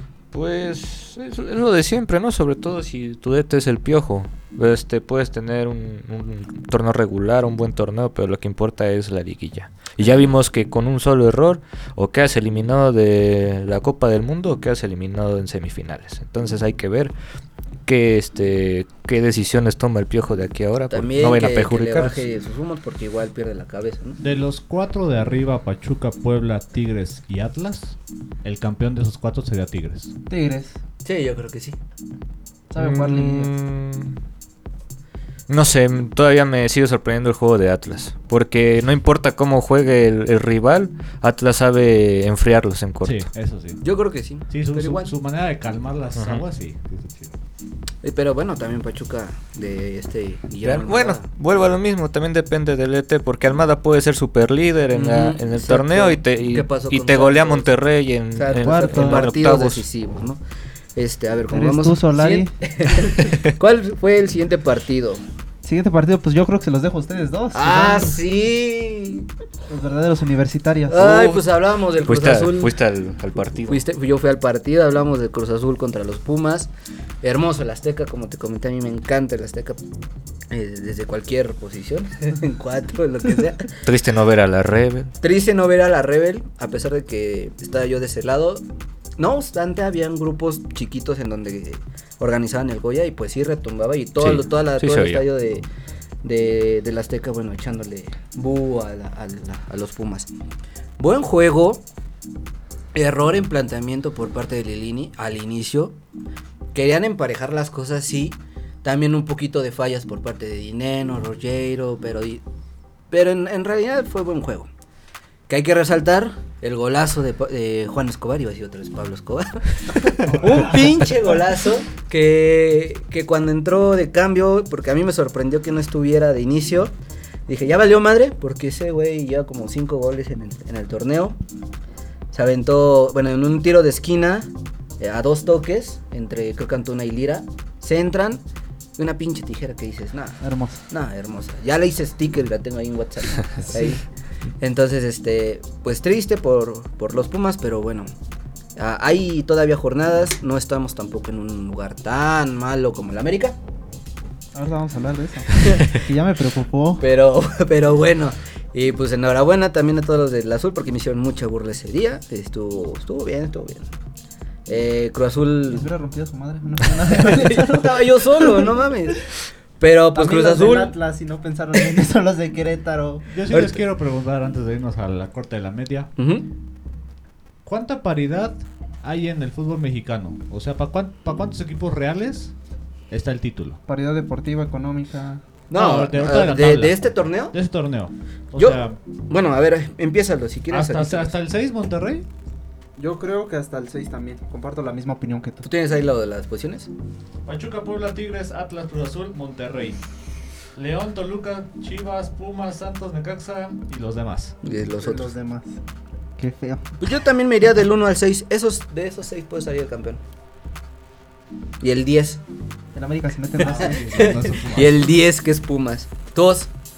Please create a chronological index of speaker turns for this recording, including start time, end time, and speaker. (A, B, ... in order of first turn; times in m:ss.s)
0:00.3-0:17.1 A
0:17.9-0:22.2 A
0:20.9-0:24.2 B
0:24.2-0:30.1 C
0:30.3-0:30.8 D
0:31.0-0:31.8 B
0:32.7-0:33.5 D
0:32.8-0:34.2 A
0:35.5-0:43.3 A
0:43.0-0:43.8 C
0:43.8-0:45.1 B
0:44.5-0:47.3 C
0:46.2-0:46.4 A
0:48.0-0:51.2 B
0:50.6-0:59.8 A
0:54.9-0:57.7 B
0:58.4-1:00.4 B
0:58.7-0:59.3 C
1:01.0-1:05.2 B
1:01.5-1:02.5 D
1:05.6-1:08.2 D
1:07.5-1:09.3 B
1:09.7-1:11.3 D
1:10.9-1:12.8 B
1:11.0-1:11.5 A
1:12.0-1:13.9 A
1:13.6-1:16.7 B
1:17.2-1:19.8 B
1:20.5-1:23.8 B
1:23.8-1:25.1 A
1:25.2-1:28.6 B
1:29.2-1:35.7 B
1:34.2-1:35.2 A
1:36.2-1:40.3 B
1:41.0-1:41.8 B
1:42.9-1:46.0 B
1:46.7-1:52.4 B
1:53.1-1:54.7 B
1:55.5-2:06.9 B
2:07.5-2:11.4 B
2:12.3-2:18.4 B
2:19.0-2:24.0 B
2:20.4-2:20.8 D
2:23.7-2:24.0 D
2:24.6-2:28.1 B
2:28.8-2:33.6 B
2:34.5-2:37.0 D
2:35.6-2:35.9 B
2:37.0-2:43.9 B
2:44.7-2:45.9 B
2:45.7-2:48.7 D
2:47.0-2:51.0 B
2:50.1-2:53.3 D
2:53.3-2:56.1 C
2:53.5-2:53.8 B
2:56.2-2:56.5 B
2:57.7-3:02.5 C
3:03.1-3:03.8 C
3:03.9-3:05.4 D
3:05.7-3:07.6 B
3:05.7-3:09.0 C
3:08.6-3:11.4 B
3:10.7-3:12.3 C
3:13.0-3:15.7 D
3:15.6-3:16.9 B
3:17.5-3:20.0 C
3:20.8-3:24.6 C
3:24.6-3:25.3 B
3:25.0-3:25.8 D
3:26.4-3:26.8 D
3:27.0-3:30.2 B
3:31.8-3:32.4 B
3:33.0-3:34.4 D
3:33.6-3:35.0 C
3:33.9-3:36.7 B